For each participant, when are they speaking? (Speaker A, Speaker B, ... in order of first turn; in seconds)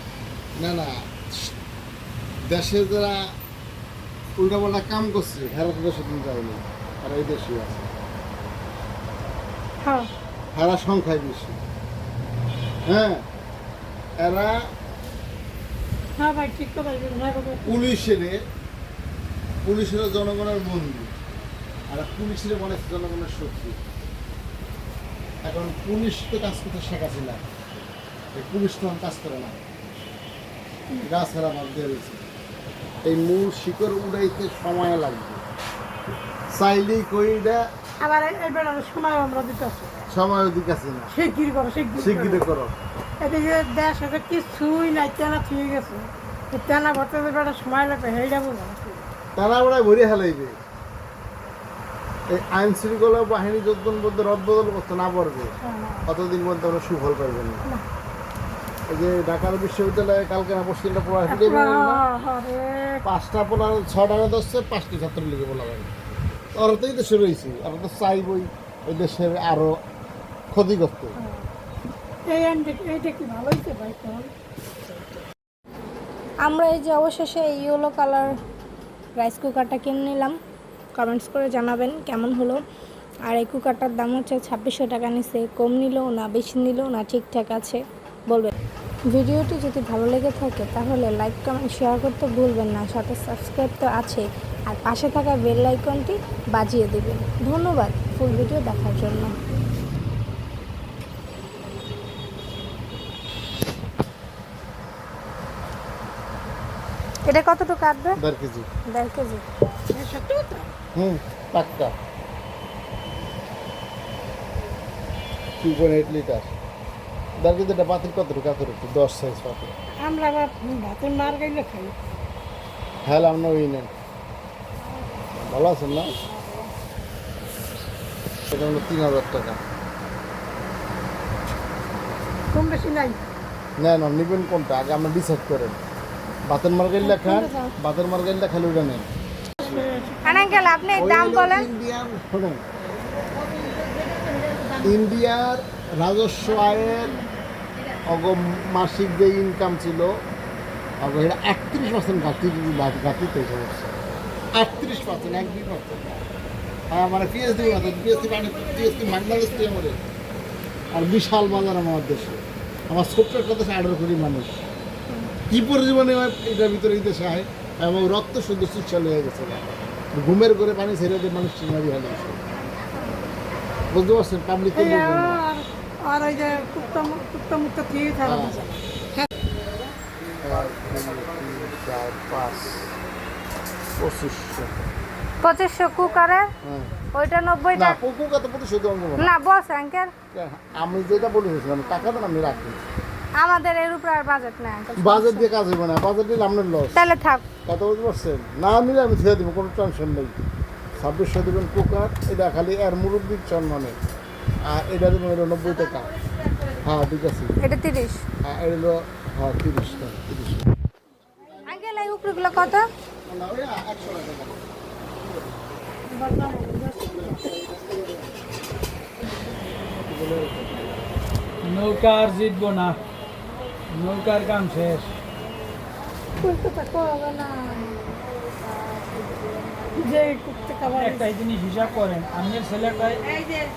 Speaker A: 0.6-1.5, 2.5-3.2, 4.4-7.9, 10.5-11.6, 12.9-13.2, 14.2-14.5, 17.6-18.4, 19.6-21.1, 21.9-23.8, 25.4-27.4, 28.3-30.0, 31.0-32.2, 33.0-35.4, 36.5-37.6, 40.1-41.1, 42.0-42.7, 49.4-50.5, 52.3-55.5, 56.1-57.6, 58.9-62.0, 63.0-65.9, 66.5-69.7, 70.5-71.2, 108.2-108.7, 110.9-111.9, 115.6-116.5, 117.4-119.7, 123.0-123.9, 125.3-126.1, 128.5-129.6, 133.8-135.8, 136.5-139.1, 141.0-142.6, 144.7-147.2, 148.0-150.1, 151.0-153.9, 154.5-156.2, 156.9-160.0, 160.9-164.6, 165.5-172.4, 173.9-175.4, 178.2-178.6, 180.4-182.9, 184.0-184.7, 186.6-186.9, 187.7-189.3, 190.3-192.8, 195.0-197.0, 197.7-200.3, 201.0-204.0, 204.7-206.2, 206.8-207.6, 208.4-210.7, 213.2-214.6, 215.2-215.5, 217.1-218.2, 220.1-220.9
Speaker B: 9.8-10.1, 16.2-17.7, 38.0-40.0, 41.1-42.4, 43.2-49.0, 55.6-56.1, 61.3-63.0, 71.2-71.4, 72.3-74.3, 109.9-110.7, 120.0-121.9, 132.5-133.2, 137.0-137.7, 139.6-140.8, 174.7-179.2, 216.1-217.5, 226.4-228.1, 229.9-231.3
Speaker C: 74.9-75.2, 76.5-78.3, 79.2-80.3, 80.9-82.6, 83.3-88.5, 89.1-99.3, 107.2-108.2, 108.9-109.4, 140.2-141.7, 185.4-186.5, 187.1-188.0, 189.2-190.1, 193.4-195.5, 196.9-197.5, 207.6-208.2, 211.7-212.8
Speaker D: 221.6-223.0, 223.9-225.1, 230.9-233.5